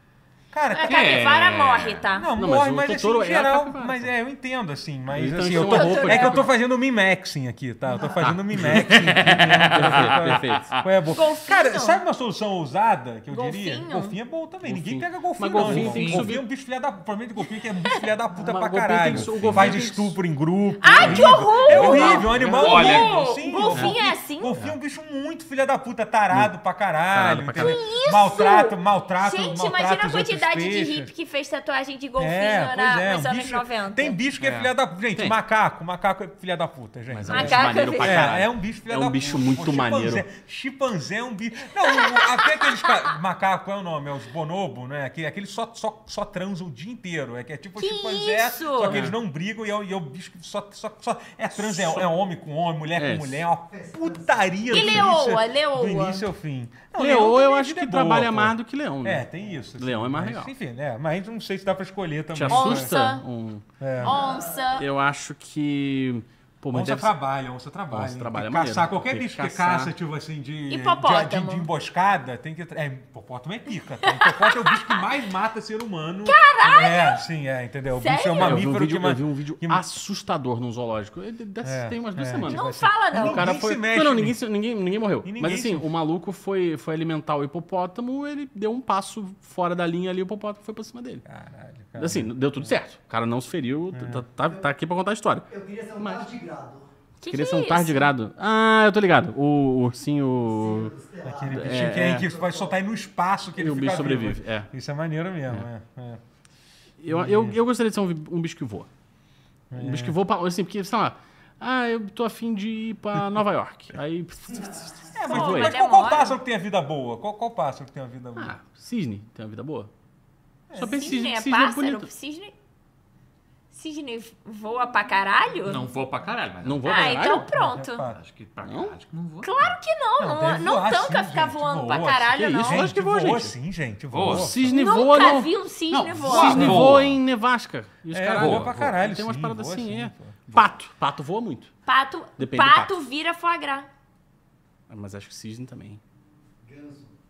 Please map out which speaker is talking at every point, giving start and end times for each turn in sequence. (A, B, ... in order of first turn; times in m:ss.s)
0:00.5-0:01.2 A
0:00.7-0:02.3 B
0:00.8-0:02.0 C
0:02.1-0:31.1 A
0:02.4-0:04.1 D
0:05.1-0:06.5 D
0:05.5-0:06.5 B
0:08.2-0:10.7 D
0:08.6-0:10.8 C
0:11.1-0:12.0 B
0:13.3-0:14.2 B
0:14.6-0:16.4 D
0:15.5-0:16.4 C
0:18.3-0:20.2 D
0:19.4-0:19.8 C
0:20.8-0:24.6 B
0:21.0-0:23.0 D
0:21.7-0:23.1 C
0:23.7-0:24.0 D
0:27.1-0:27.8 D
0:27.5-0:34.2 B
0:32.2-1:03.0 A
0:34.4-0:34.7 C
0:37.1-0:40.2 D
0:37.2-0:38.4 B
0:41.8-0:43.1 B
0:47.8-0:49.0 B
0:48.9-0:49.2 D
0:51.6-0:52.1 D
0:53.0-0:53.4 D
0:53.5-0:54.9 E
0:54.7-0:56.2 B
0:57.0-0:59.2 D
0:59.8-1:00.5 D
1:02.3-1:03.6 D
1:02.5-1:03.2 B
1:03.8-1:04.2 A
1:04.0-1:04.7 E
1:04.0-1:04.9 B
1:04.8-1:07.1 D
1:06.7-1:19.8 A
1:07.9-1:09.9 D
1:10.7-1:11.7 B
1:14.0-1:15.0 B
1:16.2-1:17.2 B
1:17.9-1:18.6 B
1:18.4-1:31.2 D
1:21.6-1:24.4 A
1:22.4-1:23.5 B
1:25.2-1:25.9 A
1:31.2-1:32.8 A
1:32.0-1:35.5 D
1:33.9-1:34.3 A
1:34.5-1:34.8 E
1:35.4-1:36.9 E
1:36.0-1:36.3 D
1:37.2-1:38.1 B
1:37.3-1:40.9 D
1:40.5-1:42.7 E
1:41.2-1:46.2 A
1:41.4-1:42.3 D
1:43.6-1:44.7 D
1:47.0-1:48.9 D
1:47.1-1:47.6 A
1:49.7-1:50.2 A
1:49.7-1:55.8 D
1:54.5-1:54.8 E
1:55.1-1:58.6 A
1:55.2-1:56.4 B
1:58.4-1:59.9 D
2:00.7-2:01.2 A
2:00.7-2:02.1 D
2:00.8-2:02.5 B
2:03.7-2:05.8 B
2:05.6-2:07.1 C
2:06.6-2:07.7 D
2:06.8-2:08.1 B
2:07.3-2:08.2 A
2:08.1-2:09.5 C
2:08.6-2:08.9 D
2:09.4-2:12.9 B
2:10.2-2:15.0 A
2:12.4-2:13.5 D
2:14.1-2:14.6 C
2:14.2-2:21.7 D
2:14.7-2:16.8 B
2:16.2-2:17.2 C
2:16.3-2:17.0 A
2:18.1-2:20.4 A
2:18.3-2:18.7 C
2:21.8-2:23.9 B
2:22.4-2:22.9 D
2:24.9-2:26.0 D
2:26.6-2:27.1 E